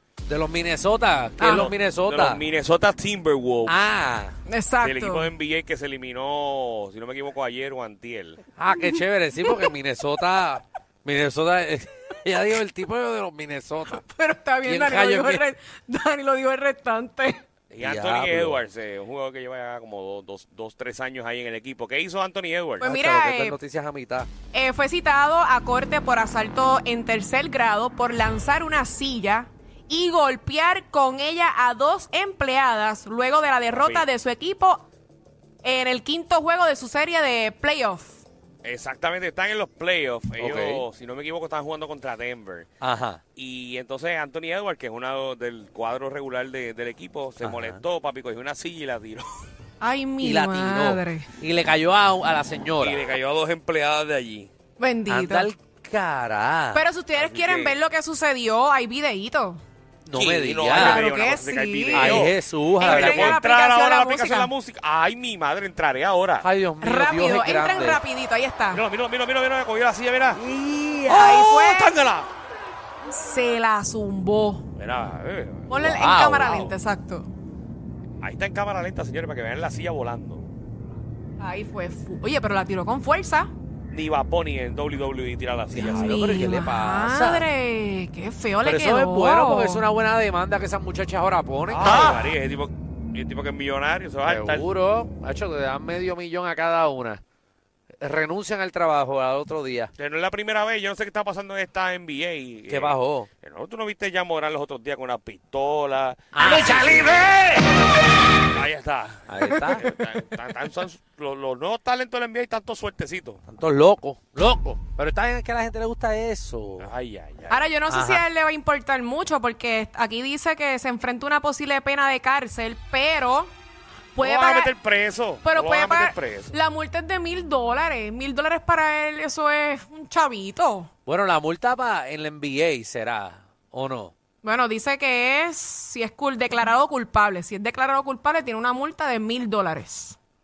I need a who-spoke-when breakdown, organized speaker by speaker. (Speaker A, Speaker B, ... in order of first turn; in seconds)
Speaker A: 0.2-2.4, 3.7-4.3, 8.6-14.0, 14.7-15.5, 17.8-18.6, 22.8-24.3, 40.4-40.8, 42.8-43.2, 47.4-47.8, 50.2-53.0, 55.1-56.8, 60.1-61.0, 61.9-63.4, 66.4-68.0, 70.4-71.4, 75.7-76.7, 85.7-87.5, 88.6-92.3, 94.2-97.2, 98.0-99.9, 102.7-103.3, 106.3-107.7, 109.3-109.8, 113.5-116.9, 117.9-118.2, 131.1-134.1
Speaker B: 1.4-1.7, 4.5-5.3, 13.9-17.4, 22.8-23.6, 24.5-34.8, 35.6-38.2, 49.8-51.3, 54.8-55.5, 56.7-59.6, 60.7-64.5, 66.8-68.8, 71.1-71.9, 73.1-74.7, 75.7-77.3, 81.4-83.5, 85.7-89.9, 117.5-123.5, 124.2-124.7, 125.4-130.9, 134.4-140.2
Speaker C: 1.5-3.8, 4.8-8.4, 17.7-22.9, 33.7-34.1, 38.6-42.7, 43.4-49.4, 52.8-54.5, 57.1-57.8, 60.1-66.5, 68.7-70.4, 71.1-72.3, 74.8-75.8, 78.2-80.4, 83.9-86.5, 91.7-94.7, 100.0-107.5, 108.5-113.4, 116.8-117.7, 124.2-126.5